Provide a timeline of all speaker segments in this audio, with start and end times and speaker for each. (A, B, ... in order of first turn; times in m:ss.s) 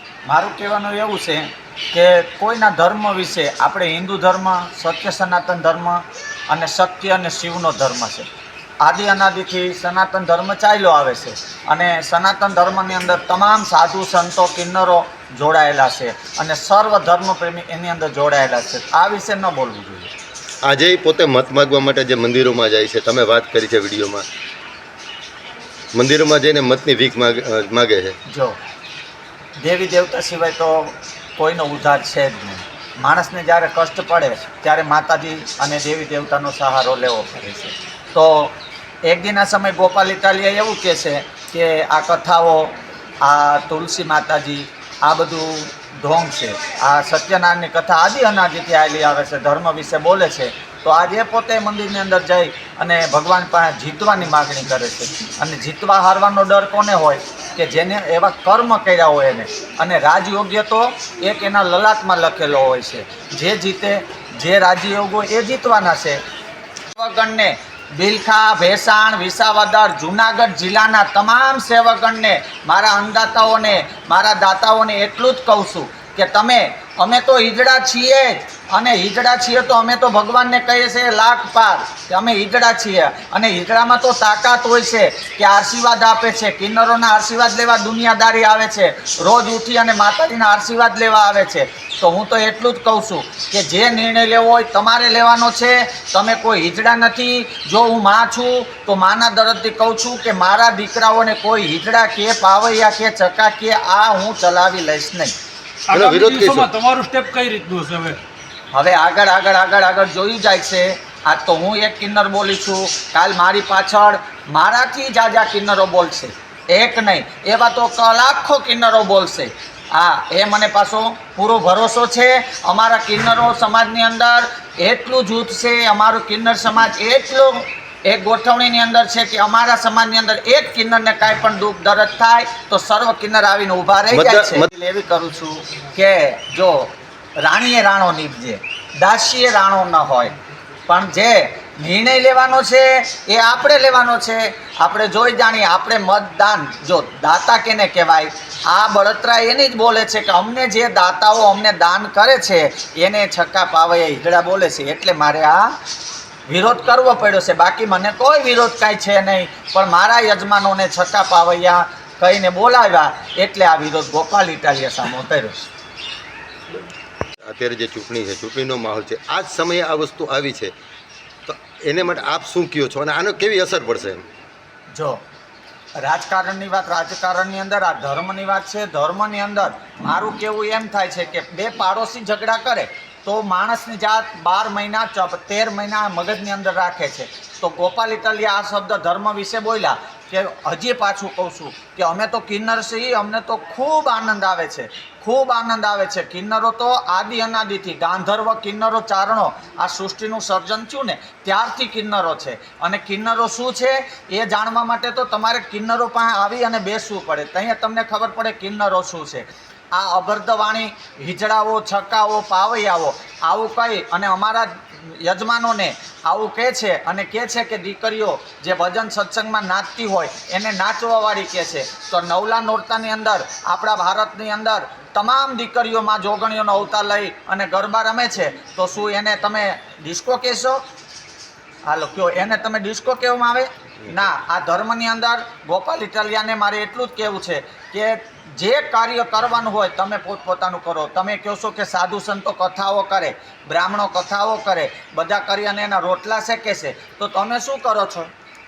0:00.3-0:08.3 A
0:08.8-0:20.1 A
0:20.6-0:24.2 B
0:25.9-0:28.1 B
0:28.3-0:28.6 A
0:29.6-1:06.2 A
1:06.9-1:45.3 A
1:45.9-1:48.2 C
1:45.9-1:46.7 B
1:48.7-2:16.9 A
2:14.1-2:14.7 B
2:17.4-2:20.3 A
2:20.9-2:35.7 A
2:36.5-2:45.6 A
2:47.4-2:50.7 B
2:51.5-2:54.2 B
2:54.9-2:55.2 A
2:56.0-3:50.8 A
3:51.8-4:08.3 A